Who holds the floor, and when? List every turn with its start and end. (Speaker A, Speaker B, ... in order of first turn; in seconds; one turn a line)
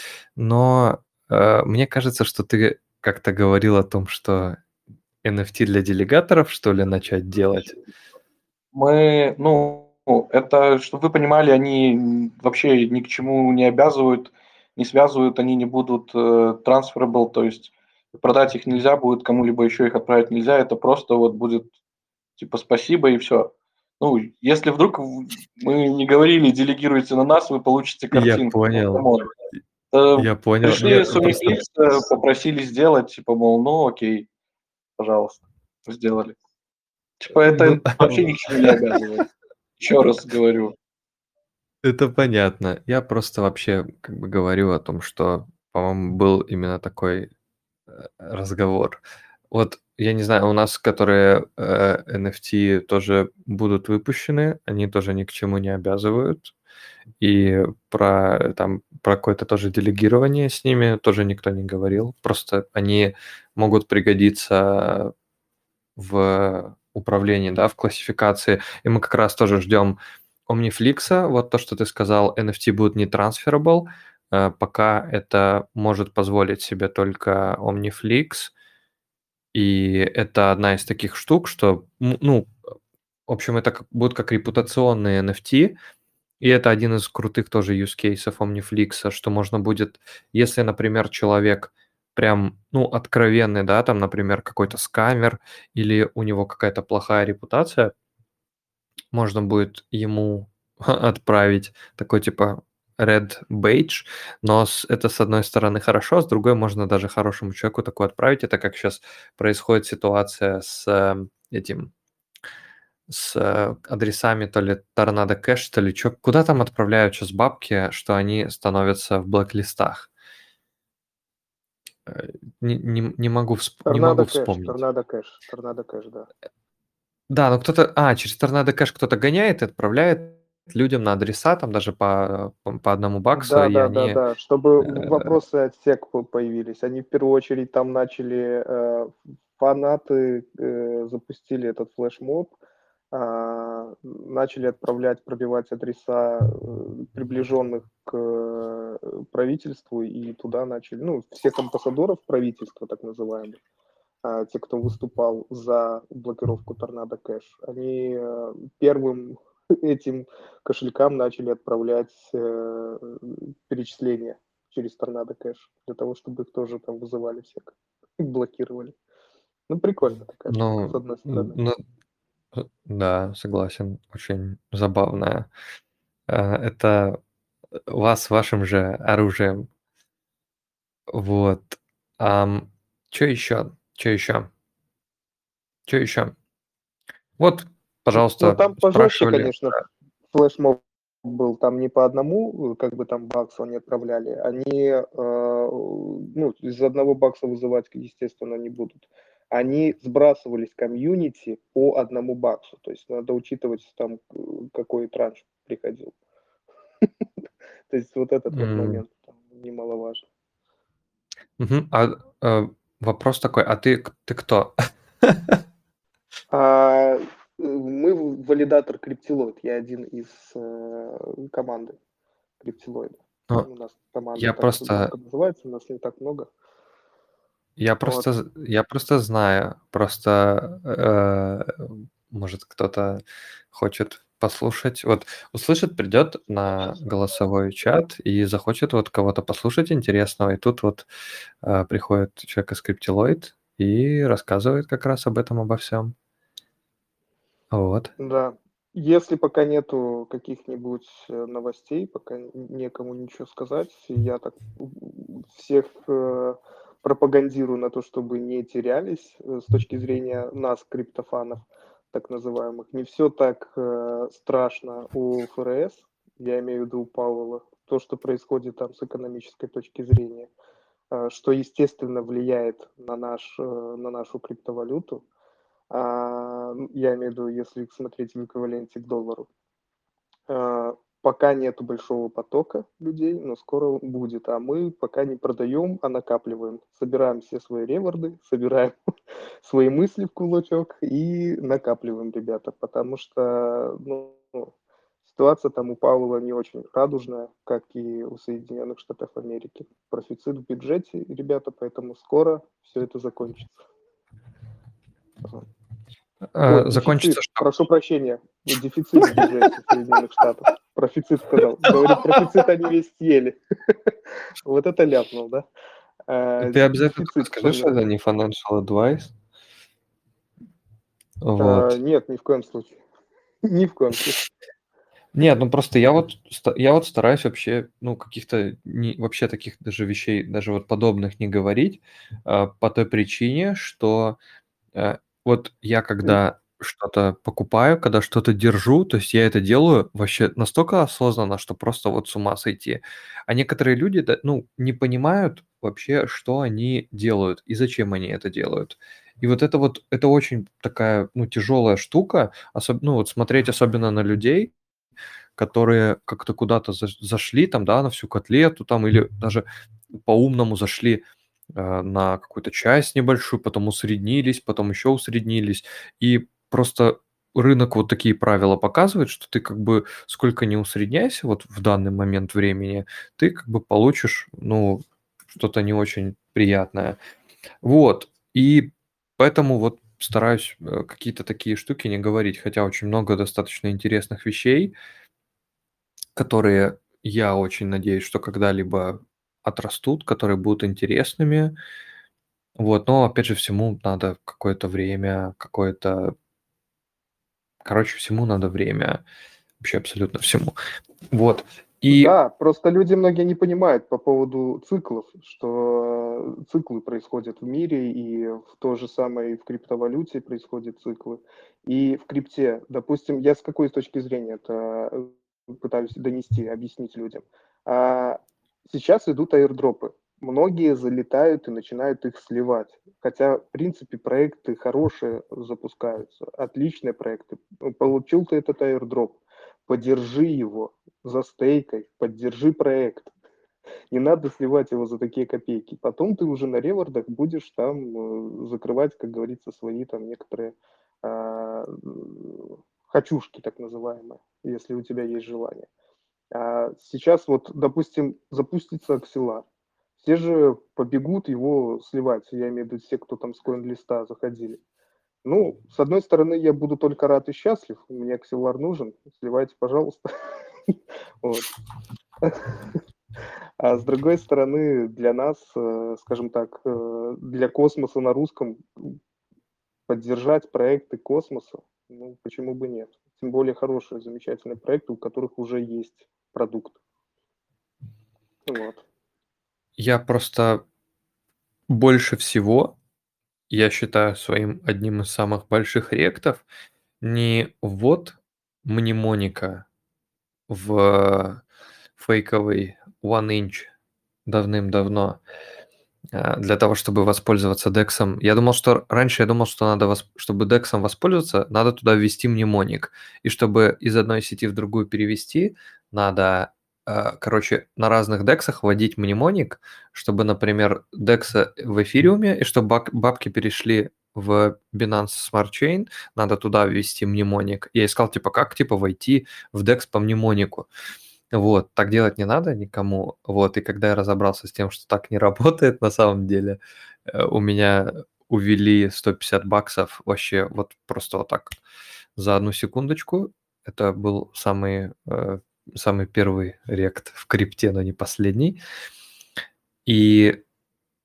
Speaker A: 0.4-4.6
Speaker A: 5.2-7.8
Speaker B: 8.7-21.7
Speaker B: 22.4-29.3
Speaker A: 28.1-29.0
Speaker B: 29.9-34.3
Speaker A: 30.1-31.6
Speaker B: 35.0-36.4
Speaker B: 37.2-39.3
Speaker A: 37.5-38.7
Speaker B: 39.8-40.7
Speaker A: 41.8-47.3
Speaker A: 48.0-49.0
Speaker A: 49.5-56.5
Speaker A: 57.2-65.1
Speaker A: 66.0-78.5
Speaker A: 79.5-82.5
Speaker A: 83.3-85.7
Speaker A: 86.4-97.9
Speaker A: 99.1-111.9
Speaker A: 113.1-120.1
Speaker A: 122.1-124.8
Speaker C: 123.8-126.3
Speaker A: 127.3-134.2
Speaker C: 133.3-142.5
Speaker A: 134.9-135.3
Speaker C: 143.1-153.6
Speaker C: 154.2-168.9
Speaker C: 169.7-171.5
Speaker A: 170.5-171.8
Speaker A: 172.5-175.5
Speaker A: 176.3-177.2
Speaker A: 177.9-179.7
Speaker A: 181.1-184.5
Speaker A: 185.9-186.3
Speaker A: 187.4-189.5
Speaker C: 188.1-206.1
Speaker C: 207.9-210.2
Speaker A: 208.5-209.0
Speaker A: 211.6-214.7
Speaker A: 215.2-215.5
Speaker C: 216.5-222.0
Speaker C: 222.6-226.5
Speaker A: 224.4-225.1
Speaker A: 227.8-233.2
Speaker C: 228.0-228.3
Speaker A: 233.7-241.1
Speaker A: 241.6-246.1
Speaker A: 247.7-248.1
Speaker C: 248.2-270.5
Speaker C: 271.1-275.2
Speaker C: 275.9-279.5
Speaker C: 280.5-288.9
Speaker C: 289.6-294.7
Speaker C: 295.2-303.8
Speaker A: 306.5-307.6
Speaker C: 306.7-314.1
Speaker A: 311.9-312.2
Speaker C: 314.6-315.6
Speaker C: 316.3-317.9
Speaker A: 316.6-319.3
Speaker A: 321.4-321.9
Speaker C: 321.6-323.0
Speaker C: 323.6-324.4
Speaker A: 325.3-334.4
Speaker A: 334.9-354.7
Speaker A: 355.6-359.6
Speaker A: 360.2-361.2
Speaker A: 361.8-377.2
Speaker A: 377.8-384.9
Speaker A: 386.4-391.7
Speaker A: 392.8-396.3
Speaker A: 397.8-399.2
Speaker A: 399.8-400.8
Speaker A: 401.3-402.3
Speaker C: 402.1-433.3
Speaker C: 434.1-445.9
Speaker C: 446.5-449.6
Speaker C: 450.2-454.8
Speaker C: 455.4-460.2
Speaker C: 460.9-461.7
Speaker C: 462.4-463.0
Speaker C: 463.8-469.2
Speaker C: 470.1-477.0
Speaker C: 478.7-479.0
Speaker A: 480.0-480.8
Speaker A: 481.9-482.9
Speaker A: 483.7-486.6
Speaker A: 487.2-489.8
Speaker A: 490.7-491.6
Speaker A: 492.2-493.9
Speaker A: 494.4-495.4
Speaker A: 496.3-520.9
Speaker A: 521.5-531.8
Speaker A: 532.4-538.8
Speaker A: 540.0-540.6